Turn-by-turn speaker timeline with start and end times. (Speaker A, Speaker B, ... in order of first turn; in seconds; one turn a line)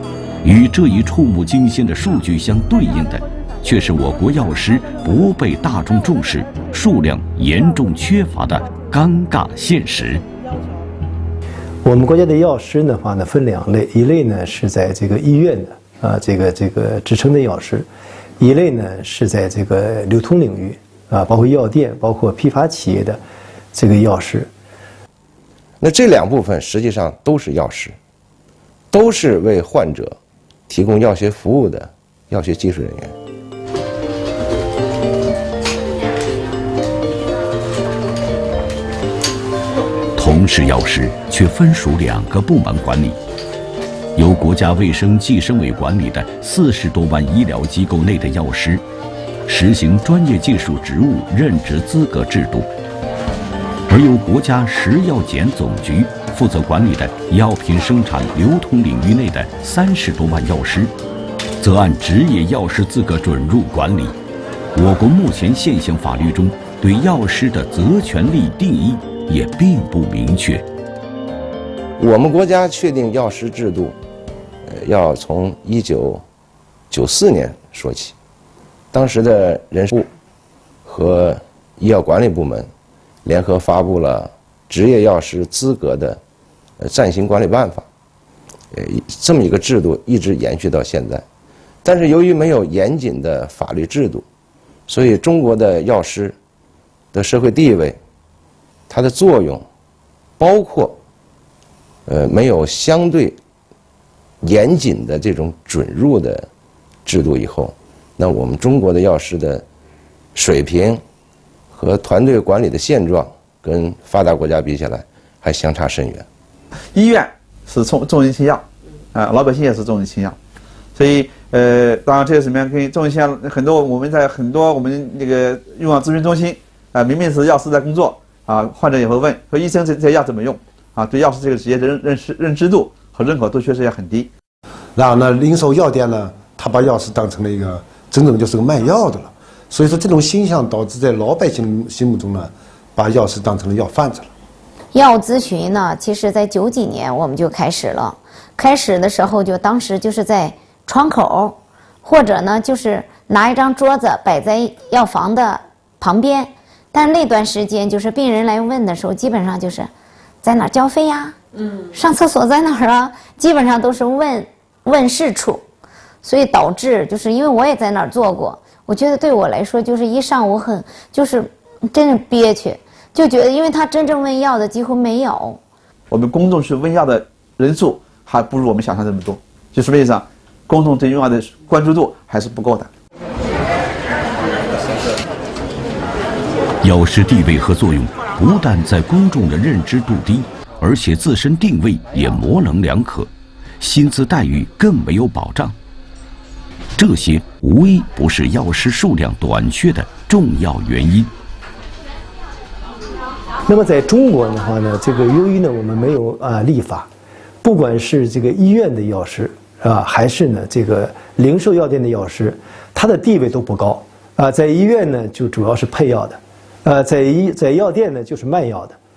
Speaker A: 0.4-10.2
Speaker B: 11.8-17.9
Speaker B: 18.4-23.2
Speaker B: 23.7-24.5
Speaker C: 25.8-28.0
Speaker C: 28.9-30.2
Speaker C: 30.7-33.1
Speaker A: 40.2-43.2
Speaker A: 44.2-48.8
Speaker A: 49.5-52.7
Speaker A: 53.9-60.9
Speaker A: 61.6-64.2
Speaker A: 64.8-70.6
Speaker C: 72.0-74.0
Speaker C: 74.7-76.2
Speaker C: 76.9-78.2
Speaker C: 78.9-80.1
Speaker C: 80.8-82.7
Speaker C: 83.2-86.2
Speaker C: 86.8-87.9
Speaker C: 88.7-91.2
Speaker C: 91.8-94.2
Speaker C: 94.9-96.4
Speaker C: 97.1-98.0
Speaker C: 98.9-99.7
Speaker C: 100.4-101.0
Speaker C: 102.1-103.4
Speaker C: 104.4-106.5
Speaker C: 107.0-109.7
Speaker C: 110.3-111.0
Speaker C: 111.7-116.3
Speaker D: 116.9-120.4
Speaker D: 121.0-134.3
Speaker E: 135.0-144.3
Speaker F: 144.9-159.9
Speaker F: 160.4-161.4
Speaker F: 161.9-165.6
Speaker F: 166.2-175.6
Speaker D: 176.1-182.9
Speaker A: 186.8-195.8
Speaker A: 197.0-201.3
Speaker B: 203.7-207.1
Speaker B: 207.6-219.0